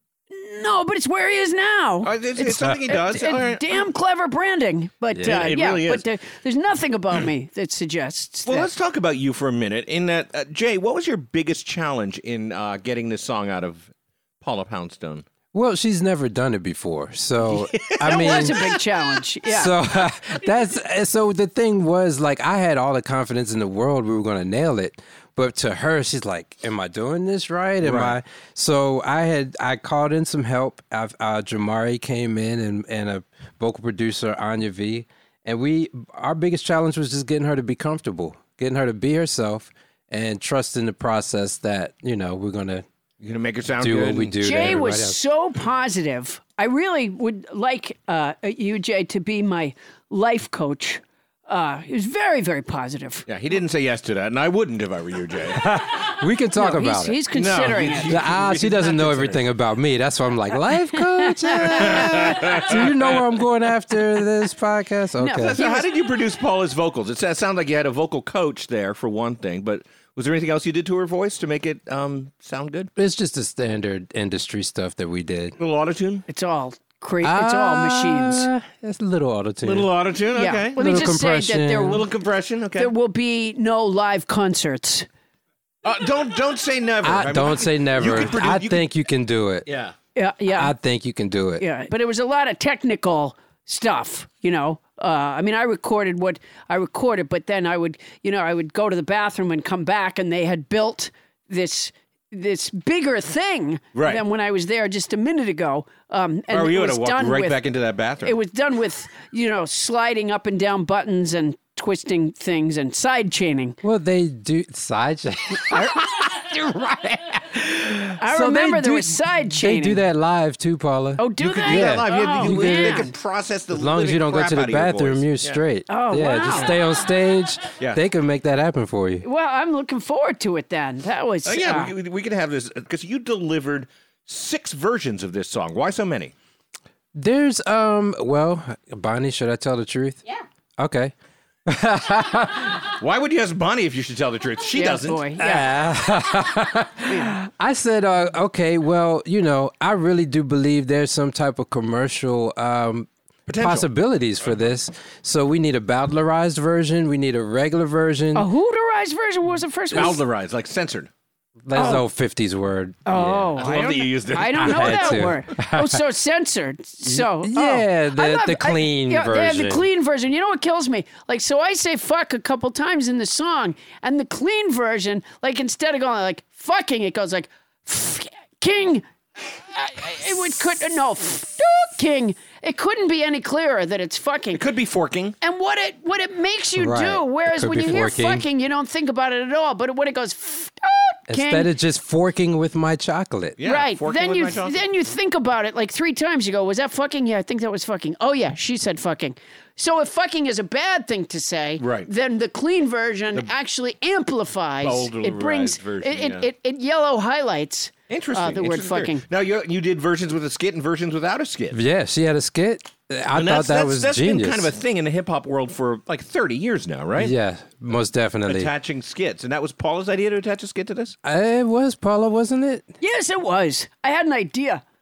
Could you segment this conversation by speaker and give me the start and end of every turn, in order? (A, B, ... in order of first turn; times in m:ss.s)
0:00.3-0:08.7 A
0:02.0-0:03.6 B
0:05.2-0:06.1 B
0:08.5-0:15.3 B
0:15.5-0:18.6 C
0:17.5-0:18.5 B
0:18.0-0:19.7 A
0:19.5-0:42.8 C
0:27.8-0:28.2 B
0:43.2-0:44.4 B
0:43.8-0:45.2 C
0:44.4-0:53.3 A
0:53.3-0:55.6 B
0:55.6-0:57.3 C
0:56.6-0:58.2 A
0:57.3-0:59.4 B
0:58.1-1:05.6 C
1:01.2-1:02.6 A
1:01.8-1:03.2 B
1:05.2-1:05.9 A
1:05.4-1:12.9 B
1:13.0-1:15.6 C
1:15.6-1:16.2 B
1:16.3-1:18.5 A
1:17.2-1:19.9 C
1:19.6-1:20.9 B
1:20.3-1:22.0 A
1:20.8-1:22.0 C
1:21.8-1:22.9 B
1:22.8-1:25.1 A
1:25.8-1:28.8 B
1:27.0-1:29.7 C
1:29.7-1:29.9 B
1:30.2-1:30.7 A
1:30.5-1:31.6 C
1:31.6-1:47.6 A
1:43.9-1:44.2 B
1:46.5-1:48.4 B
1:48.2-1:53.8 A
1:53.8-2:03.1 C
1:58.2-2:00.0 A
2:01.2-2:03.1 A
2:01.4-2:05.6 B
2:03.7-2:09.2 C
2:05.9-2:06.8 A
2:09.2-2:11.9 A
2:11.5-2:16.3 B
2:17.2-2:20.2 C
2:20.8-2:21.1 C
2:21.7-2:22.8 C
2:22.9-2:25.4 B
2:24.7-2:25.7 A
2:25.4-2:38.5 C
2:33.5-2:33.9 B
2:38.4-2:40.2 A
2:39.9-2:41.1 B
2:41.7-2:43.8 C
2:41.7-2:42.0 A
2:43.1-3:04.6 A
2:43.1-2:45.3 B
2:44.4-2:46.0 C
2:47.1-2:49.8 C
3:04.5-3:05.4 B
3:05.4-3:11.7 A
3:06.8-3:08.5 C
3:11.3-3:13.6 C
3:13.6-3:14.8 B
3:13.6-3:29.2 A
3:21.8-3:22.1 B
3:24.8-3:26.5 B
3:28.1-3:31.8 B
3:31.7-3:34.7 C
3:33.3-3:37.3 B
3:37.2-3:38.7 C
3:38.5-3:41.2 B
3:41.2-3:42.9 C
3:43.0-3:44.8 A